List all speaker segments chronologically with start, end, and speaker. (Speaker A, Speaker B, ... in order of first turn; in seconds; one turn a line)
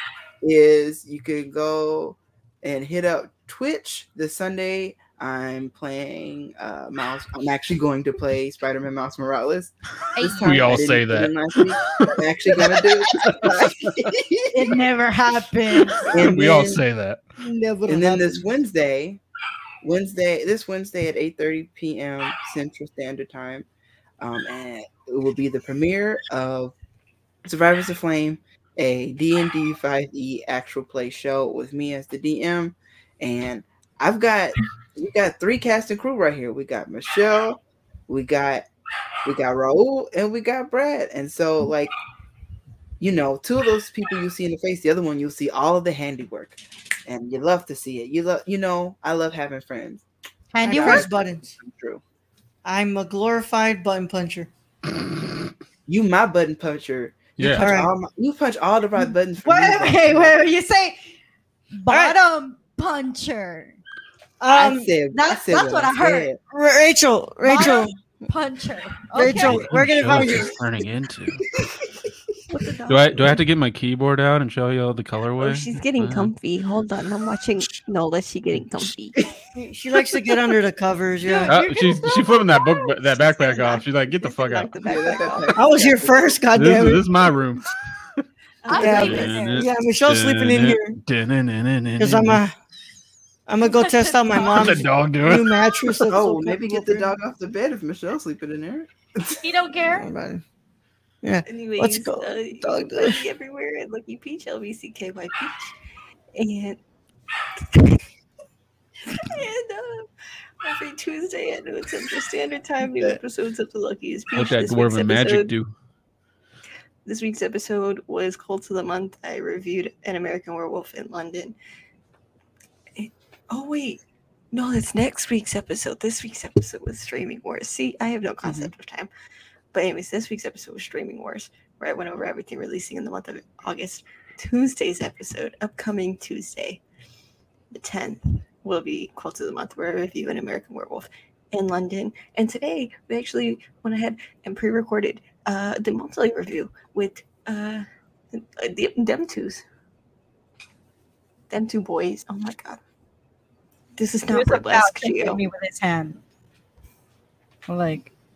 Speaker A: 0.4-14.8
Speaker B: 10.2-10.8
Speaker C: 10.4-11.3
Speaker B: 14.5-16.1
Speaker A: 16.0-16.8
Speaker C: 16.1-17.2
Speaker D: 17.4-18.5
Speaker A: 17.9-19.2
Speaker A: 19.8-23.7
Speaker A: 24.2-26.7
Speaker A: 27.4-38.7
Speaker A: 39.2-41.9
Speaker A: 43.0-50.0
Speaker B: 50.5-51.1
Speaker D: 50.6-51.5
Speaker A: 50.7-52.0
Speaker D: 52.6-54.5
Speaker A: 55.9-60.3
Speaker C: 57.4-57.7
Speaker D: 57.5-57.9
Speaker B: 59.4-61.0
Speaker B: 61.7-63.8
Speaker D: 61.9-62.2
Speaker D: 64.4-64.9
Speaker A: 64.5-66.4
Speaker B: 65.1-66.3
Speaker D: 66.5-67.9
Speaker B: 67.4-69.6
Speaker D: 69.1-70.6
Speaker C: 69.3-71.5
Speaker E: 72.5-73.3
Speaker C: 72.9-76.3
Speaker E: 75.4-79.2
Speaker D: 79.5-81.6
Speaker B: 81.2-83.8
Speaker C: 81.5-84.7
Speaker E: 83.5-85.7
Speaker A: 84.8-86.1
Speaker D: 85.5-87.1
Speaker C: 86.5-87.6
Speaker E: 88.6-89.5
Speaker B: 88.7-89.6
Speaker D: 88.8-91.0
Speaker C: 88.9-92.4
Speaker D: 92.0-92.5
Speaker D: 93.5-97.1
Speaker B: 93.6-94.8
Speaker C: 94.4-96.0
Speaker A: 96.1-99.4
Speaker B: 99.4-100.1
Speaker D: 99.8-100.4
Speaker D: 101.2-103.2
Speaker E: 101.4-105.7
Speaker E: 106.3-106.8
Speaker E: 107.6-108.0
Speaker E: 109.0-110.1
Speaker E: 110.6-115.5
Speaker C: 114.3-115.7
Speaker E: 117.0-121.5
Speaker E: 123.0-124.0
Speaker E: 124.5-129.1
Speaker A: 128.4-128.7
Speaker E: 129.7-136.8
Speaker E: 137.7-149.6
Speaker E: 151.5-152.8
Speaker E: 153.9-155.4
Speaker B: 154.3-156.2
Speaker B: 157.7-158.1